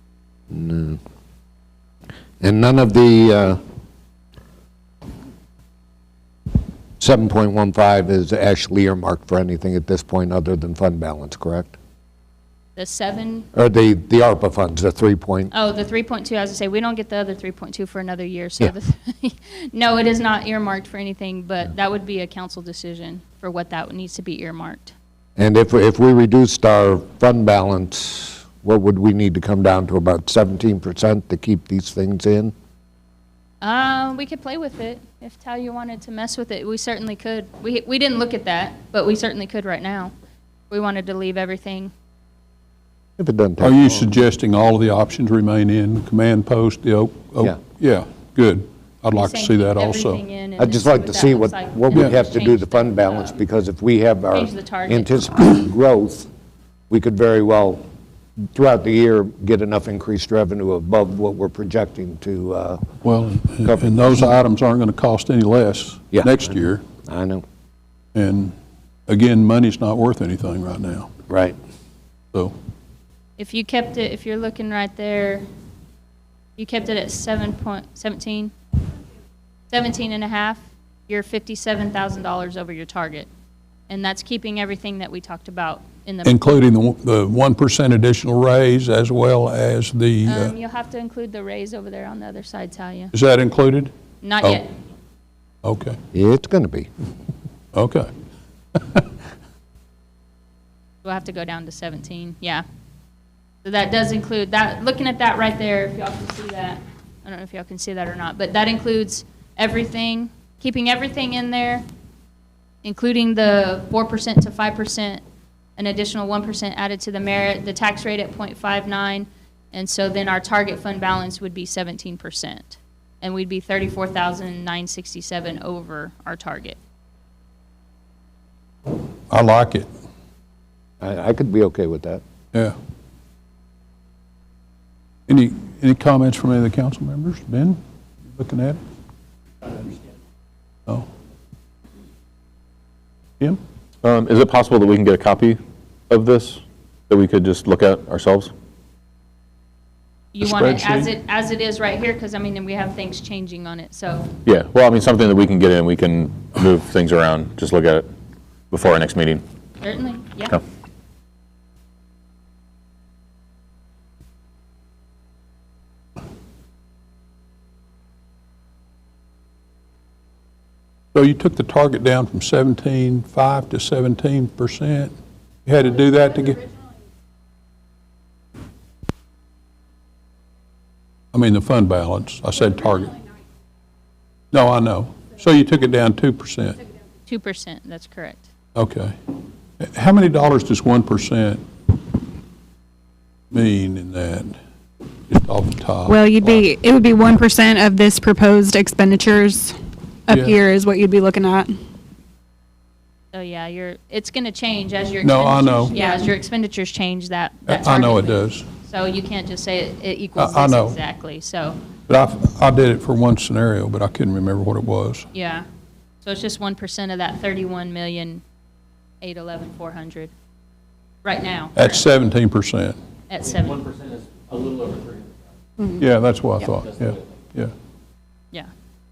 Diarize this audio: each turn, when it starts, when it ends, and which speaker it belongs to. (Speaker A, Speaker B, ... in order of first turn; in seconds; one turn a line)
Speaker A: 0.5-1.0
Speaker A: 2.4-3.6
Speaker A: 7.0-11.8
Speaker B: 12.8-13.5
Speaker A: 13.5-15.5
Speaker B: 15.5-24.9
Speaker A: 25.4-32.5
Speaker B: 33.6-40.1
Speaker B: 40.7-41.9
Speaker A: 43.2-44.1
Speaker C: 43.6-50.2
Speaker B: 49.1-53.4
Speaker A: 50.6-56.3
Speaker B: 54.3-55.1
Speaker A: 56.9-57.8
Speaker A: 58.5-62.8
Speaker C: 63.0-66.8
Speaker A: 63.6-64.4
Speaker A: 66.1-67.4
Speaker C: 68.1-68.5
Speaker C: 69.1-71.1
Speaker A: 71.3-71.6
Speaker B: 73.4-75.4
Speaker B: 76.6-78.5
Speaker B: 79.7-83.3
Speaker B: 83.9-86.6
Speaker C: 86.2-90.5
Speaker B: 90.2-93.1
Speaker C: 93.1-93.9
Speaker B: 94.2-94.7
Speaker C: 95.6-96.0
Speaker A: 96.1-96.9
Speaker C: 97.7-98.1
Speaker C: 98.7-99.1
Speaker B: 101.0-102.6
Speaker B: 103.6-111.8
Speaker B: 112.8-115.2
Speaker B: 115.8-126.8
Speaker C: 129.3-129.9
Speaker A: 131.0-132.2
Speaker C: 135.3-138.8
Speaker D: 144.0-148.5
Speaker B: 150.3-154.3
Speaker C: 150.4-151.1
Speaker D: 154.4-158.1
Speaker D: 158.7-159.4
Speaker B: 159.8-160.6
Speaker C: 171.1-175.1
Speaker C: 175.7-176.7
Speaker C: 181.3-183.2
Speaker C: 184.5-186.8
Speaker B: 187.2-188.5
Speaker C: 188.7-189.1
Speaker C: 189.8-191.6
Speaker C: 193.5-194.6
Speaker C: 195.3-196.6
Speaker E: 196.1-201.7
Speaker C: 200.3-200.6
Speaker B: 203.3-211.8
Speaker C: 205.2-205.9
Speaker E: 205.9-206.2
Speaker C: 207.7-208.7
Speaker C: 210.4-211.0
Speaker C: 212.1-215.3
Speaker B: 215.3-215.7
Speaker B: 216.2-218.4
Speaker B: 219.2-220.3
Speaker B: 221.2-222.0
Speaker C: 221.8-223.0
Speaker B: 223.3-223.8
Speaker F: 223.7-225.3
Speaker C: 226.0-227.7
Speaker F: 226.8-227.2